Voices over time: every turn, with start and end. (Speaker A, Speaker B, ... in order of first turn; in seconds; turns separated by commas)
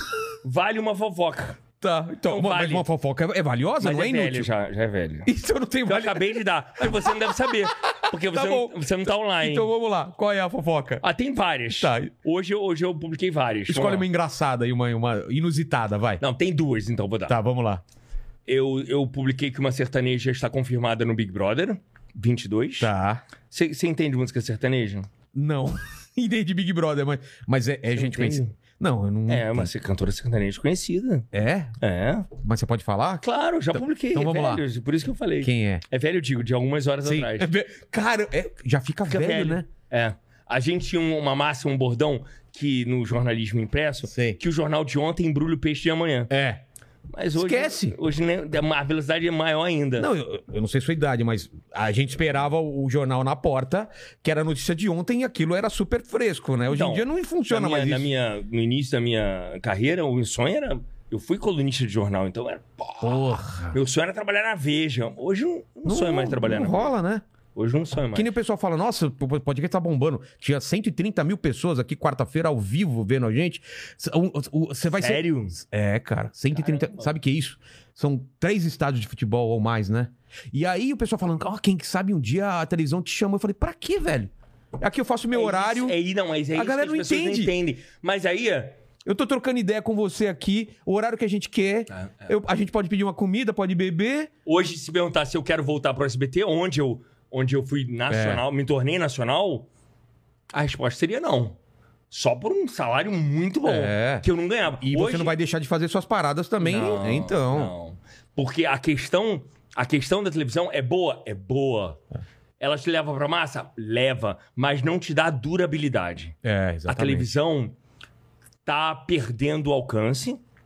Speaker A: 0.4-1.6, Speaker B: 1.8-4.5, Speaker A: 2.3-2.9, Speaker A: 3.8-5.3, Speaker B: 5.3-11.0, Speaker A: 5.9-9.7, Speaker A: 11.0-14.1, Speaker B: 11.7-12.1, Speaker B: 13.7-16.2, Speaker A: 16.2-17.4, Speaker B: 17.3-17.8, Speaker A: 18.5-22.9, Speaker B: 22.8-23.2, Speaker A: 23.5-25.1, Speaker B: 25.3-29.7, Speaker A: 27.9-28.5, Speaker A: 29.3-31.3, Speaker B: 31.3-31.8, Speaker A: 31.8-32.3, Speaker B: 32.3-34.6, Speaker A: 33.2-37.5, Speaker B: 35.4-35.8, Speaker B: 37.0-39.7, Speaker A: 39.1-46.3, Speaker B: 44.1-44.4, Speaker B: 46.3-46.6, Speaker A: 47.1-50.1, Speaker B: 47.4-48.0, Speaker B: 50.0-58.1, Speaker A: 56.7-66.9, Speaker B: 63.0-63.8, Speaker B: 65.8-67.2, Speaker A: 67.5-68.3, Speaker B: 68.1-86.0, Speaker A: 75.0-75.6, Speaker A: 76.5-77.1, Speaker A: 85.3-88.8, Speaker B: 86.5-87.5, Speaker B: 89.0-94.3, Speaker A: 91.9-92.3, Speaker A: 94.5-99.7, Speaker B: 98.1-98.4, Speaker A: 100.5-101.6, Speaker A: 102.1-105.3, Speaker B: 103.7-104.2, Speaker B: 104.8-107.7, Speaker A: 106.6-112.0, Speaker A: 112.6-116.4, Speaker B: 116.4-117.4, Speaker A: 116.9-117.8, Speaker A: 118.7-120.4